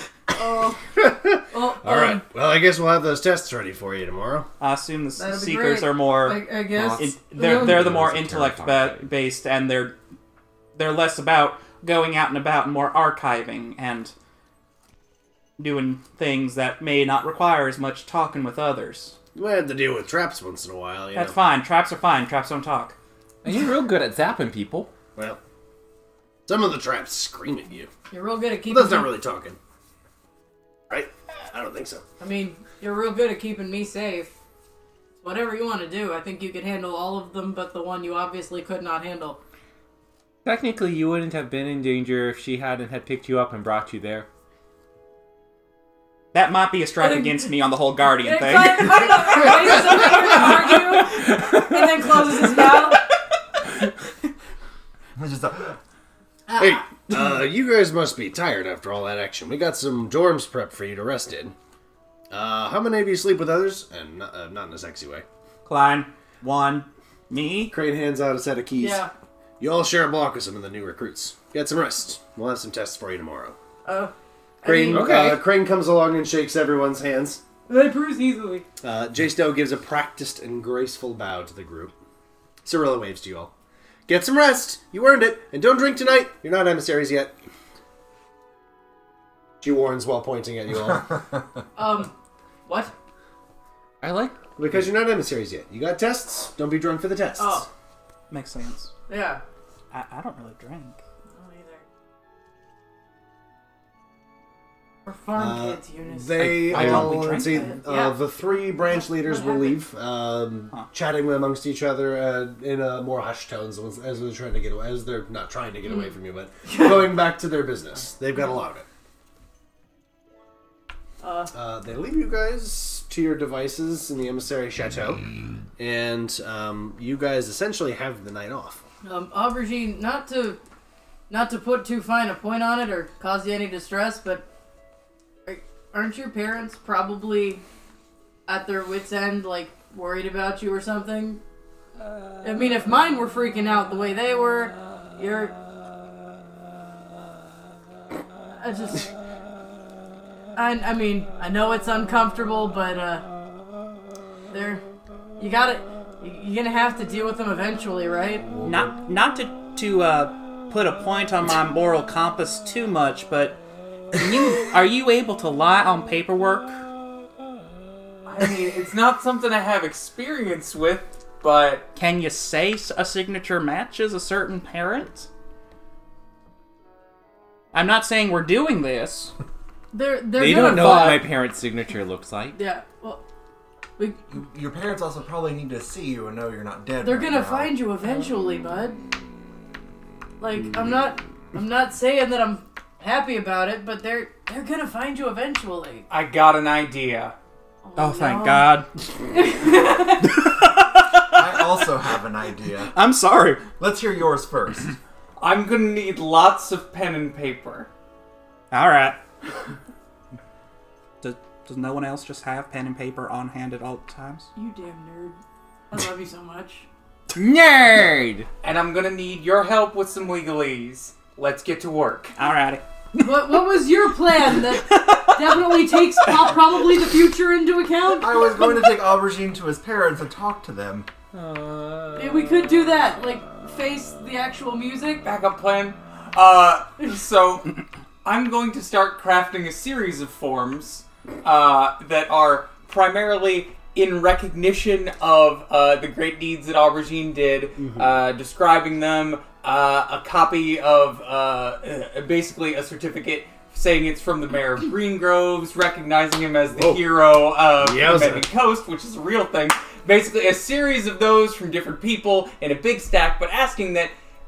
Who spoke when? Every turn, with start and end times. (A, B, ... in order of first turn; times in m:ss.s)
0:00.3-0:02.2 A
0:01.0-0:04.5 B
0:04.6-0:10.0 C
0:05.2-0:07.7 A
0:06.7-0:09.1 D
0:10.8-0:14.1 C
0:15.6-0:19.2 C
0:19.3-0:21.4 B
0:21.1-0:22.9 C
0:23.4-0:24.9 D
0:25.1-0:25.4 B
0:26.5-0:27.9 B
0:28.1-0:29.1 A
0:28.6-0:29.6 B
0:30.9-0:32.0 B
0:32.2-0:34.3 A
0:35.2-0:39.4 A
0:40.4-0:44.3 D
0:46.3-0:49.1 C
0:48.1-0:53.0 A
0:55.2-0:55.7 E
0:56.6-1:01.5 B
1:02.3-1:05.2 B
1:05.6-1:07.7 C
1:07.7-1:09.0 B
1:08.8-1:09.1 A
1:09.6-1:13.6 B
1:13.8-1:15.2 A
1:14.6-1:17.4 B
1:14.9-1:15.4 D
1:17.7-1:18.6 A
1:18.8-1:21.9 B
1:22.6-1:23.5 B
1:24.1-1:27.3 B
1:29.6-1:31.1 B
1:31.7-1:32.1 A
1:32.6-1:32.9 A
1:34.0-1:34.5 D
1:34.6-1:37.7 B
1:37.4-1:37.7 A
1:38.3-1:38.9 C
1:39.1-1:39.4 A
1:39.9-1:41.0 C
1:41.3-1:41.8 A
1:45.0-1:48.2 A
1:45.3-1:58.8 B
1:46.4-1:47.8 C
1:49.0-1:49.8 A
2:01.2-2:01.5 A
2:01.5-2:05.2 B
2:05.8-2:08.8 B
2:09.0-2:10.6 A
2:11.3-2:14.4 A
2:15.4-2:17.6 A
2:18.5-2:21.4 A
2:22.4-2:25.5 A
2:28.6-2:29.1 A
2:30.6-2:33.2 A
2:34.5-2:34.8 A
2:35.4-2:38.5 A
2:38.5-2:38.9 E
2:38.6-2:43.6 C
2:44.1-2:46.8 C
2:48.2-2:51.9 F
2:51.9-2:55.3 C
2:57.7-2:59.3 C
2:59.9-3:01.3 A
3:00.3-3:02.6 D
3:02.6-3:03.2 A
3:04.3-3:07.8 E
3:07.0-3:09.0 A
3:10.4-3:16.0 A
3:16.1-3:17.4 F
3:17.8-3:18.7 A
3:18.0-3:18.9 C
3:19.3-3:20.3 A
3:20.4-3:21.6 C
3:21.3-3:22.9 E
3:22.9-3:23.6 C
3:23.8-3:24.9 E
3:25.4-3:27.9 F
3:28.7-3:29.2 C
3:31.2-3:34.5 C
3:34.6-3:35.4 A
3:35.9-3:36.8 A
3:37.3-3:38.5 D
3:38.6-3:42.3 F
3:42.4-3:42.8 C
3:43.2-3:48.6 A
3:44.7-3:46.2 C
3:48.2-3:51.1 E
3:51.3-3:53.0 D
3:52.1-3:55.2 A
3:55.2-3:57.7 F
3:58.2-4:24.1 F
4:07.8-4:08.1 B
4:16.7-4:17.2 B
4:17.8-4:18.5 B